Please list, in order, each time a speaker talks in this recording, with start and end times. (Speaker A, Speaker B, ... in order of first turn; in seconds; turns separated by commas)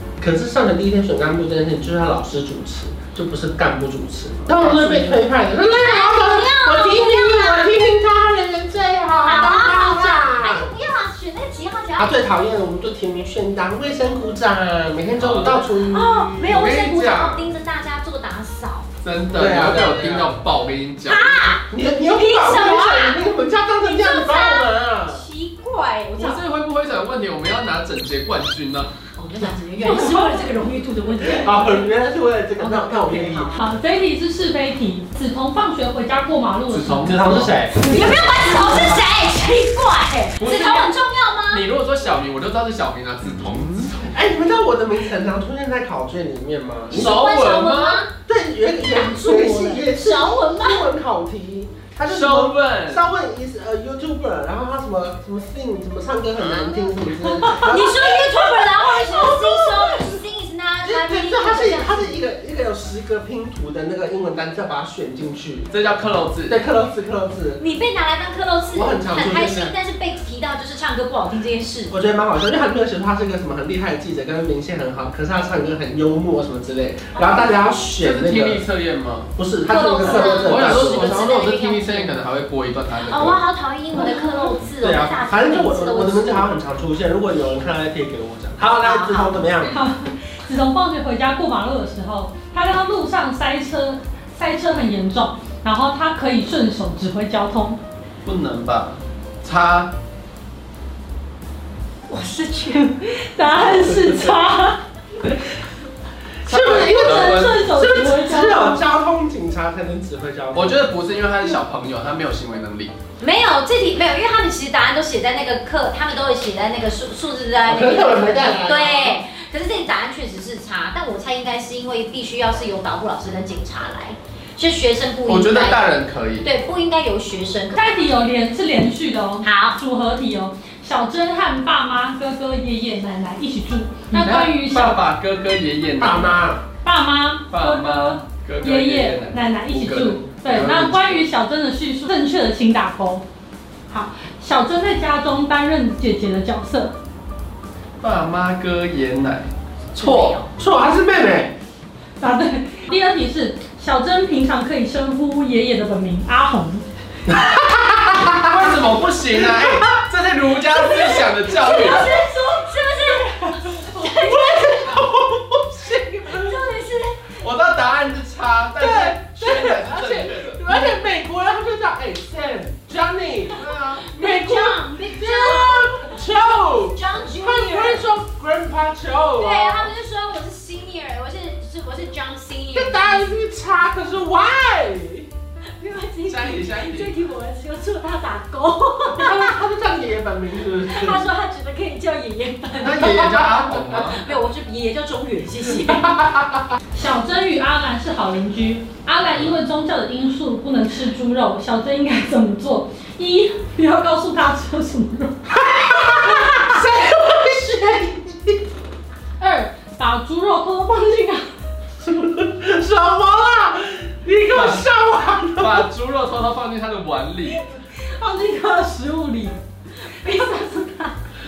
Speaker A: 0.2-10.7, Speaker B: 4.5-7.8, Speaker B: 9.2-12.2, Speaker A: 12.0-16.7, Speaker C: 15.2-15.7, Speaker B: 15.8-18.9, Speaker C: 16.4-17.4, Speaker C: 19.0-21.5, Speaker A: 19.4-20.3, Speaker B: 21.1-26.4, Speaker A: 21.7-25.2, Speaker C: 26.2-28.9, Speaker B: 29.2-31.9, Speaker D: 29.8-30.4, Speaker A: 31.3-33.5, Speaker B: 32.6-33.6, Speaker D: 33.6-37.2, Speaker C: 36.7-37.7, Speaker A: 37.0-39.0, Speaker B: 37.7-41.6, Speaker C: 40.4-41.0, Speaker C: 41.5-44.1, Speaker A: 44.1-47.1, Speaker C: 46.9-48.0, Speaker B: 47.0-48.1, Speaker A: 48.3-60.1, Speaker B: 48.9-50.9, Speaker C: 52.1-53.1, Speaker B: 57.4-62.2, Speaker A: 60.8-65.7, Speaker C: 65.7-66.6, Speaker A: 66.5-67.6, Speaker B: 67.6-71.9, Speaker A: 68.7-69.8, Speaker A: 71.9-78.6, Speaker B: 77.1-77.7, Speaker C: 78.0-79.3, Speaker A: 79.4-81.2, Speaker B: 79.6-82.2, Speaker C: 80.0-83.4, Speaker B: 83.0-86.5, Speaker A: 83.9-89.8, Speaker B: 88.7-89.4, Speaker D: 89.6-97.8, Speaker C: 98.2-99.9, Speaker D: 102.1-105.4, Speaker A: 106.5-110.8, Speaker C: 106.5-107.6, Speaker D: 106.9-108.8, Speaker C: 110.5-112.9, Speaker B: 113.2-125.9, Speaker A: 117.7-119.2, Speaker C: 125.2-126.5, Speaker B: 126.4-128.0, Speaker D: 127.8-135.0, Speaker B: 129.4-129.8, Speaker C: 134.1-136.5, Speaker A: 136.0-136.6, Speaker D: 136.8-143.2, Speaker C: 137.5-141.2, Speaker D: 143.9-146.9, Speaker C: 148.0-150.4, Speaker B: 149.9-150.5, Speaker A: 150.6-151.6, Speaker D: 152.2-156.8, Speaker A: 157.3-158.5, Speaker C: 158.5-162.2, Speaker A: 159.4-159.8, Speaker B: 160.8-165.1, Speaker A: 163.9-166.6, Speaker B: 166.2-167.3, Speaker C: 167.3-170.6, Speaker A: 168.8-179.9, Speaker C: 173.7-174.0, Speaker B: 174.0-178.1, Speaker B: 179.4-183.3, Speaker A: 182.7-185.3, Speaker B: 185.8-189.6, Speaker C: 186.3-187.1, Speaker A: 189.1-191.2, Speaker B: 190.8-196.1, Speaker C: 192.8-194.2, Speaker A: 192.8-193.6, Speaker A: 196.0-196.4, Speaker D: 196.9-205.4, Speaker C: 199.2-199.6, Speaker A: 205.5-208.6, Speaker D: 209.4-211.5, Speaker A: 212.0-215.8, Speaker C: 214.5-214.8, Speaker C: 215.6-217.6, Speaker D: 218.2-219.6, Speaker B: 220.2-220.8, Speaker D: 220.2-221.1